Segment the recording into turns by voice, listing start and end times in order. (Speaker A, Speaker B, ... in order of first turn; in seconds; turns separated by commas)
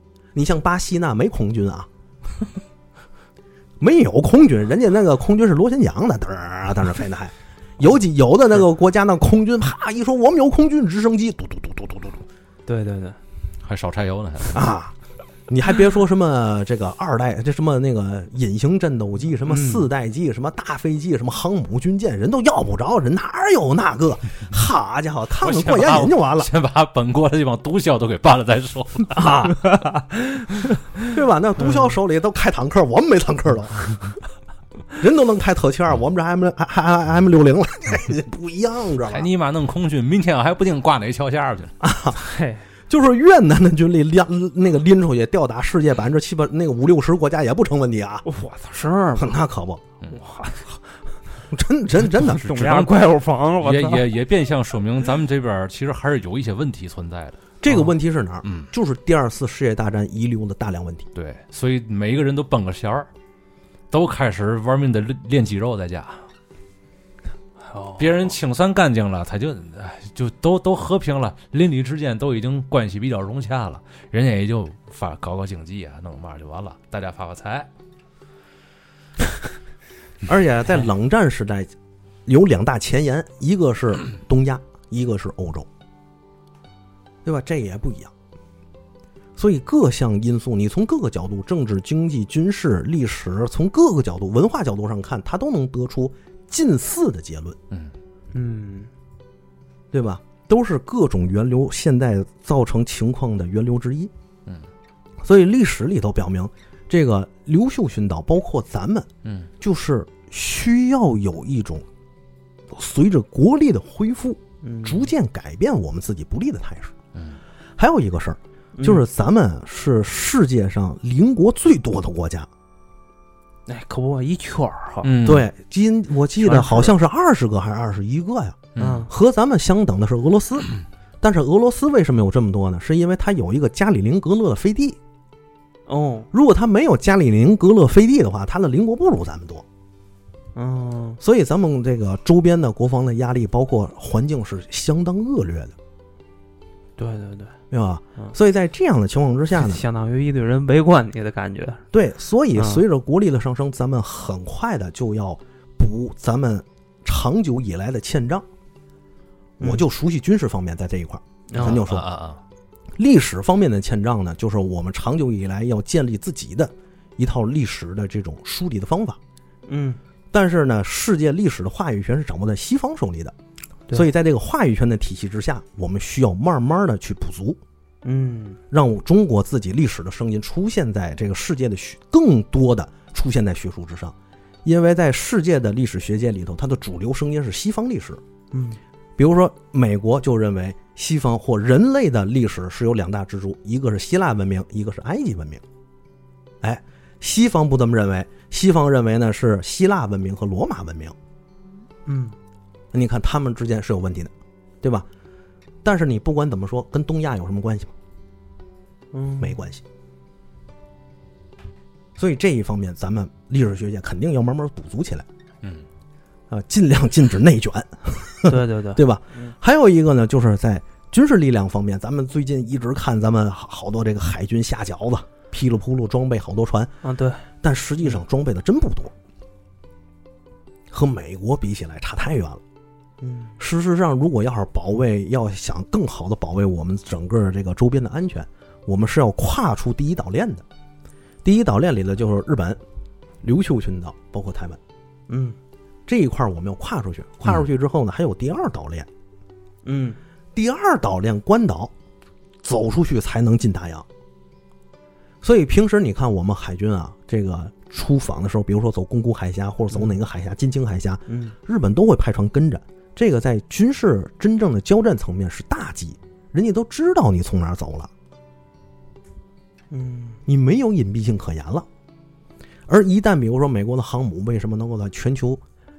Speaker A: 0.3-1.9, Speaker A: 3.8-12.2, Speaker B: 12.7-13.2, Speaker C: 13.6-14.7, Speaker A: 14.5-14.9, Speaker A: 15.5-26.5, Speaker B: 19.5-19.9, Speaker C: 25.4-29.4, Speaker A: 29.1-29.6, Speaker B: 29.9-30.5, Speaker A: 31.0-34.1, Speaker A: 35.0-39.3, Speaker C: 39.1-41.7, Speaker A: 41.8-42.2, Speaker B: 42.1-42.6, Speaker A: 42.9-48.2, Speaker B: 48.2-49.4, Speaker A: 49.2-49.8, Speaker B: 50.1-50.8, Speaker A: 51.5-52.5, Speaker B: 52.2-54.1, Speaker C: 52.3-53.0, Speaker C: 53.6-57.4, Speaker A: 57.6-61.0, Speaker C: 61.1-63.1, Speaker C: 63.9-66.2, Speaker B: 67.6-68.3, Speaker C: 68.0-77.7, Speaker A: 80.2-81.7, Speaker A: 82.2-85.7, Speaker A: 87.2-88.1, Speaker A: 89.4-97.6, Speaker B: 98.3-98.9, Speaker A: 99.9-104.1, Speaker A: 105.2-109.1, Speaker C: 109.2-109.5, Speaker A: 109.6-111.8, Speaker A: 112.7-116.9, Speaker B: 114.6-115.1, Speaker A: 117.8-122.5, Speaker B: 118.8-119.0, Speaker B: 123.7-125.1, Speaker C: 125.0-125.5, Speaker A: 125.2-130.7, Speaker B: 126.4-126.9, Speaker C: 128.8-129.1, Speaker B: 128.8-129.1, Speaker A: 131.2-135.0, Speaker B: 135.9-136.3, Speaker A: 136.3-139.6, Speaker B: 140.5-141.2, Speaker A: 141.2-145.7, Speaker B: 147.0-147.5, Speaker A: 147.7-149.8, Speaker B: 149.5-151.8, Speaker A: 151.9-158.4, Speaker B: 152.5-152.8, Speaker A: 159.6-162.1, Speaker B: 161.5-161.8, Speaker C: 161.6-162.4, Speaker A: 163.0-169.2, Speaker B: 169.7-170.0, Speaker A: 170.3-173.3, Speaker A: 173.9-177.6, Speaker B: 178.0-178.6, Speaker A: 178.7-188.2, Speaker B: 188.5-188.8, Speaker A: 189.2-195.6, Speaker A: 196.6-201.1, Speaker B: 202.1-202.3, Speaker A: 202.9-205.1, Speaker A: 205.8-207.9, Speaker B: 209.1-209.6, Speaker A: 209.4-209.8, Speaker A: 212.2-215.2, Speaker A: 216.5-226.9, Speaker B: 218.5-219.5, Speaker B: 227.0-227.4, Speaker A: 227.6-229.1, Speaker A: 230.9-232.6, Speaker B: 233.2-233.6, Speaker A: 233.6-240.6, Speaker A: 241.4-242.8, Speaker A: 243.4-244.8, Speaker B: 245.3-245.6, Speaker A: 246.1-249.1, Speaker B: 249.8-250.2, Speaker A: 250.5-251.9, Speaker A: 252.6-254.1, Speaker A: 255.4-268.1, Speaker B: 261.3-261.5, Speaker B: 269.9-270.4, Speaker A: 270.4-271.9, Speaker A: 272.9-275.6